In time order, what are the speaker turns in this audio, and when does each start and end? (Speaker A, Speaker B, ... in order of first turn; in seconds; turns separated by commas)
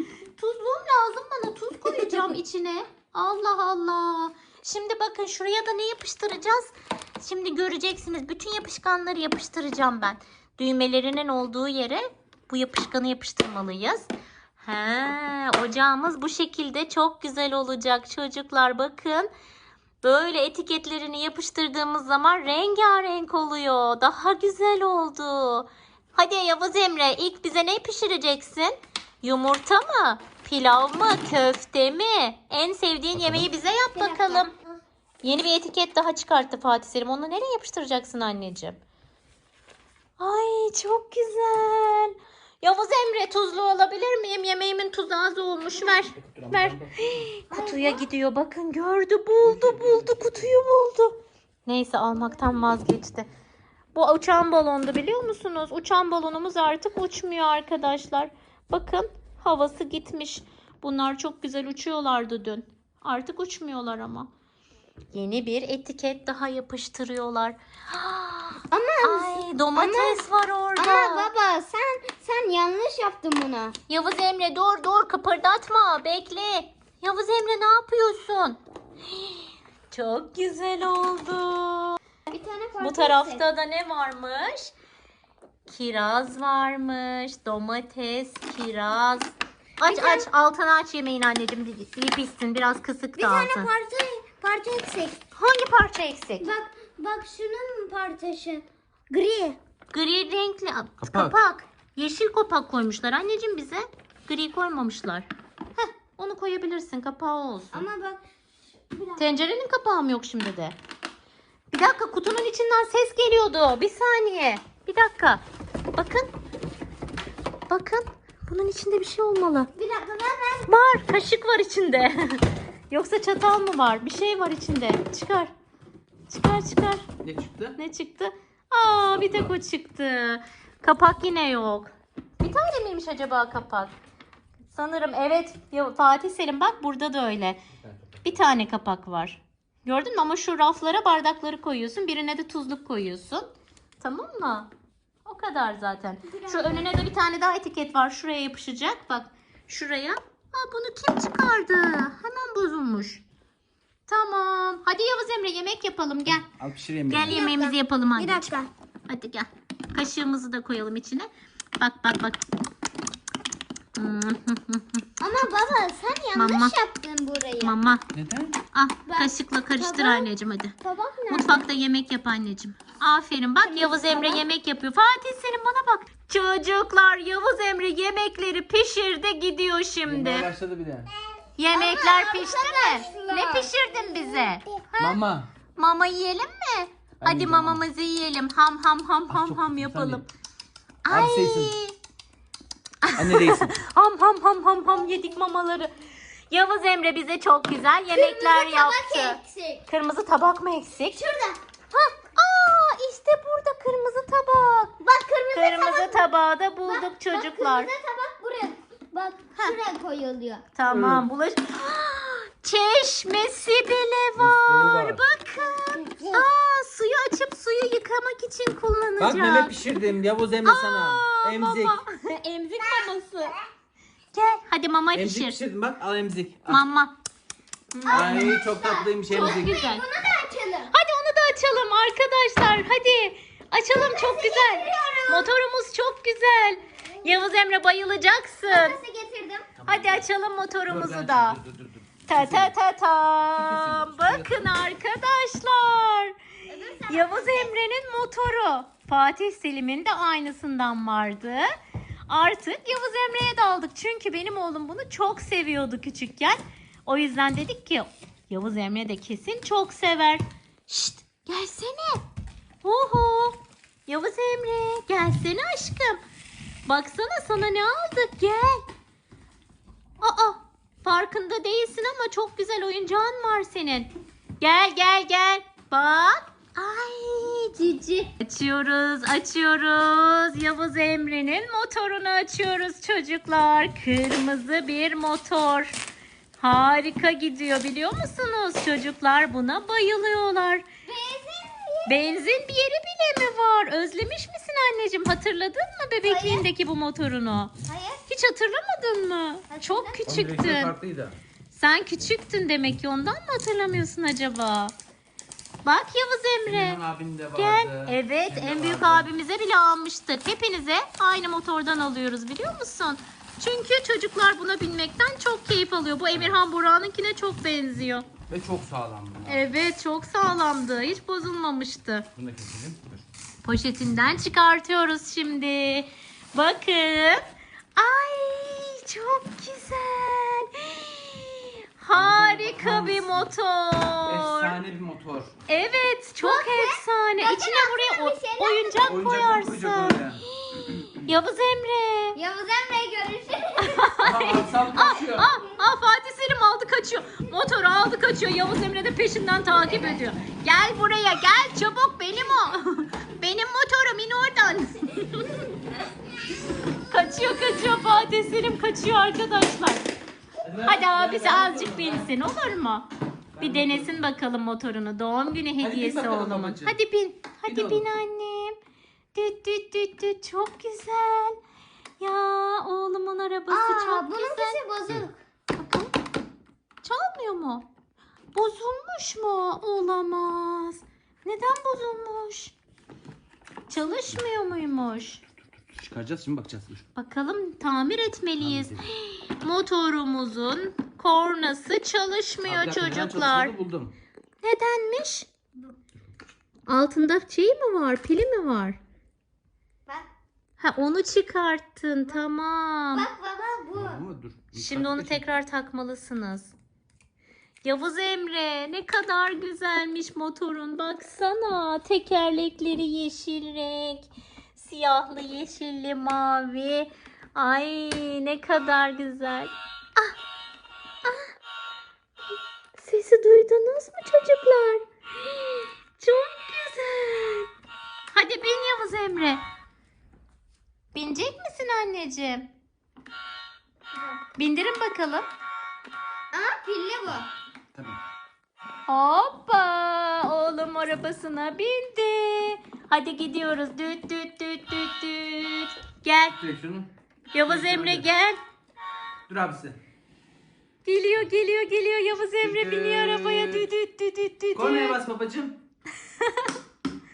Speaker A: 0.3-19.3, Speaker A: 20.0-34.5, Speaker B: 33.1-33.4, Speaker C: 33.9-34.8, Speaker A: 35.2-38.8, Speaker A: 40.2-53.3, Speaker B: 46.1-47.1, Speaker C: 47.5-48.0, Speaker B: 49.4-50.6, Speaker A: 53.9-64.3, Speaker A: 65.1-71.3, Speaker C: 68.7-73.7, Speaker A: 73.9-82.0, Speaker C: 82.3-83.5, Speaker A: 82.8-84.7, Speaker A: 85.7-93.7, Speaker C: 89.8-90.2, Speaker C: 93.2-95.2, Speaker A: 95.3-96.5, Speaker C: 96.4-99.6, Speaker A: 99.9-107.8, Speaker B: 101.0-101.3, Speaker C: 107.7-108.2, Speaker C: 108.9-109.2, Speaker A: 109.2-110.8, Speaker A: 111.7-115.4, Speaker A: 116.0-116.3, Speaker A: 117.7-119.7, Speaker C: 119.8-120.7, Speaker A: 120.7-125.5, Speaker A: 126.3-127.1, Speaker B: 127.2-127.8, Speaker A: 127.8-133.9, Speaker B: 128.9-129.5, Speaker A: 134.7-137.6, Speaker B: 137.8-138.3, Speaker A: 138.2-143.5, Speaker A: 144.0-144.7, Speaker A: 145.2-153.2, Speaker C: 146.3-146.9, Speaker A: 154.1-156.5, Speaker B: 156.3-157.4, Speaker A: 157.1-158.5, Speaker C: 157.3-158.7, Speaker A: 159.1-162.4, Speaker A: 163.9-165.1, Speaker C: 165.2-167.8, Speaker A: 166.3-166.7, Speaker A: 167.6-168.0, Speaker B: 168.1-168.6, Speaker A: 168.7-170.7, Speaker C: 169.1-170.3, Speaker C: 170.8-171.6, Speaker A: 171.3-180.5, Speaker C: 173.6-174.4, Speaker B: 180.1-181.1, Speaker A: 181.6-185.2, Speaker C: 181.7-184.7, Speaker B: 185.0-185.5, Speaker A: 185.8-190.3, Speaker B: 187.2-187.8, Speaker B: 189.3-190.2, Speaker A: 191.0-191.9, Speaker B: 191.1-191.7, Speaker A: 193.0-195.9, Speaker B: 193.2-193.8, Speaker A: 196.5-201.3, Speaker C: 198.1-199.8, Speaker C: 201.1-201.6, Speaker A: 201.9-204.9, Speaker C: 205.0-206.2, Speaker A: 205.5-207.9, Speaker C: 206.9-210.6, Speaker A: 210.7-219.8, Speaker B: 210.9-211.2, Speaker B: 214.4-215.2, Speaker C: 215.6-216.4, Speaker B: 219.2-222.0, Speaker A: 220.6-223.6, Speaker C: 222.8-223.2, Speaker A: 224.3-225.6, Speaker B: 225.1-226.8, Speaker A: 226.7-227.1, Speaker A: 227.9-228.6, Speaker C: 228.0-230.9, Speaker B: 228.1-229.8, Speaker A: 229.3-230.0, Speaker A: 230.9-239.0, Speaker C: 233.9-235.5, Speaker C: 238.7-239.7, Speaker B: 239.8-240.2, Speaker A: 239.9-241.6, Speaker B: 240.9-242.7, Speaker A: 242.3-246.3, Speaker B: 243.6-244.6, Speaker C: 246.7-247.7, Speaker A: 247.1-251.7, Speaker A: 252.3-262.2, Speaker A: 262.8-266.2, Speaker A: 266.9-268.8, Speaker A: 270.2-286.0, Speaker A: 286.6-290.8, Speaker C: 291.1-292.2, Speaker A: 292.1-297.7, Speaker C: 296.2-296.6, Speaker C: 297.8-298.2, Speaker A: 298.3-300.9, Speaker C: 299.7-300.2, Speaker B: 300.2-301.4, Speaker A: 301.7-304.9, Speaker A: 305.8-307.0, Speaker B: 306.7-309.3, Speaker A: 307.5-318.3, Speaker B: 316.3-316.6, Speaker B: 318.5-319.6, Speaker A: 319.5-322.3, Speaker B: 322.3-323.2, Speaker A: 323.6-334.8, Speaker B: 332.1-333.5, Speaker B: 334.2-335.5, Speaker A: 335.7-342.4, Speaker C: 336.4-339.2, Speaker B: 339.0-340.4, Speaker C: 342.3-344.1, Speaker A: 343.8-355.6, Speaker B: 344.2-345.5, Speaker A: 357.1-360.1, Speaker B: 360.6-362.3, Speaker A: 360.8-363.1, Speaker B: 363.5-364.2, Speaker A: 363.6-368.8, Speaker B: 365.8-367.0, Speaker B: 367.6-368.1, Speaker A: 369.3-371.6, Speaker A: 372.2-374.8, Speaker C: 373.7-375.4, Speaker A: 375.7-376.1, Speaker A: 377.0-377.9, Speaker A: 378.5-382.7, Speaker A: 383.9-385.4, Speaker B: 385.8-387.0, Speaker A: 387.1-393.8, Speaker B: 388.6-389.1, Speaker B: 392.6-394.1, Speaker A: 394.6-395.5, Speaker A: 396.9-399.0, Speaker A: 400.8-403.3, Speaker C: 403.1-404.2, Speaker B: 403.9-405.4, Speaker A: 404.7-406.7, Speaker A: 407.8-420.3, Speaker A: 421.2-421.5, Speaker A: 423.0-427.7, Speaker A: 428.3-429.6, Speaker A: 431.1-432.7, Speaker A: 434.6-435.4, Speaker C: 436.5-437.5, Speaker B: 437.9-438.2, Speaker A: 439.1-446.6, Speaker B: 446.5-447.1, Speaker A: 447.5-448.6, Speaker B: 447.6-448.3, Speaker B: 449.5-450.0, Speaker A: 451.0-455.2, Speaker B: 452.6-453.9, Speaker B: 454.7-455.8, Speaker A: 456.4-456.7